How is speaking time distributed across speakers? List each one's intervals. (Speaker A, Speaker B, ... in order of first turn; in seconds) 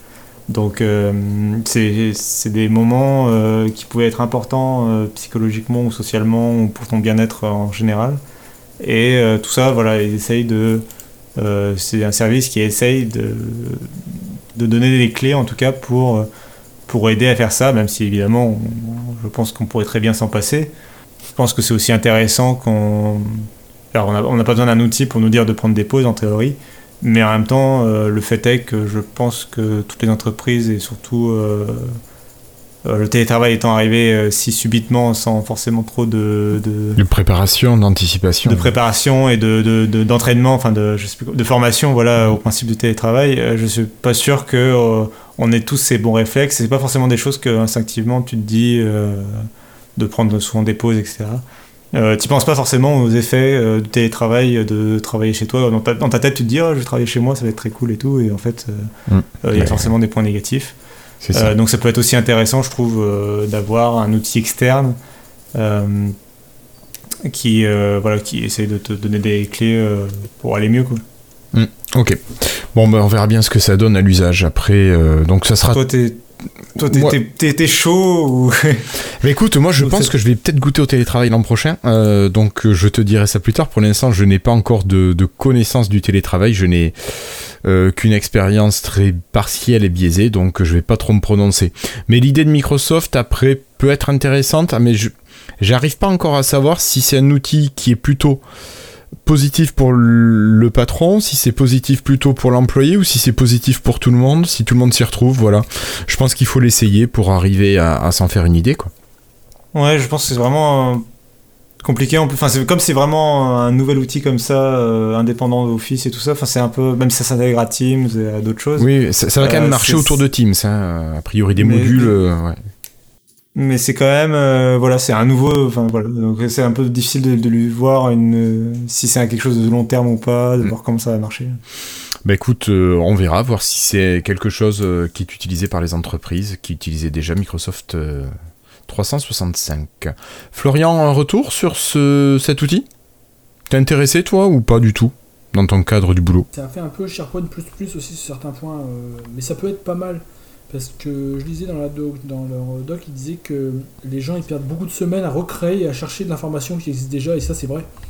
Speaker A: 0.5-8.2, 8.8-10.8, 11.4-13.9, 14.6-16.3, 16.9-20.7, 21.4-32.0, 32.8-37.0, 38.5-60.7, 61.3-65.0, 65.5-66.2, 67.2-71.0, 75.7-76.2, 76.8-78.9, 79.8-80.1, 109.7-111.0, 111.8-118.9, 119.4-120.2, 121.5-122.1, 123.5-131.6
Speaker B: 37.0-38.7, 59.1-59.9, 61.2-61.5, 71.5-75.8, 76.9-77.2, 79.2-98.4, 99.2-108.9, 118.8-122.6, 132.2-138.3, 138.9-142.9, 143.7-146.5
Speaker C: 146.5-157.9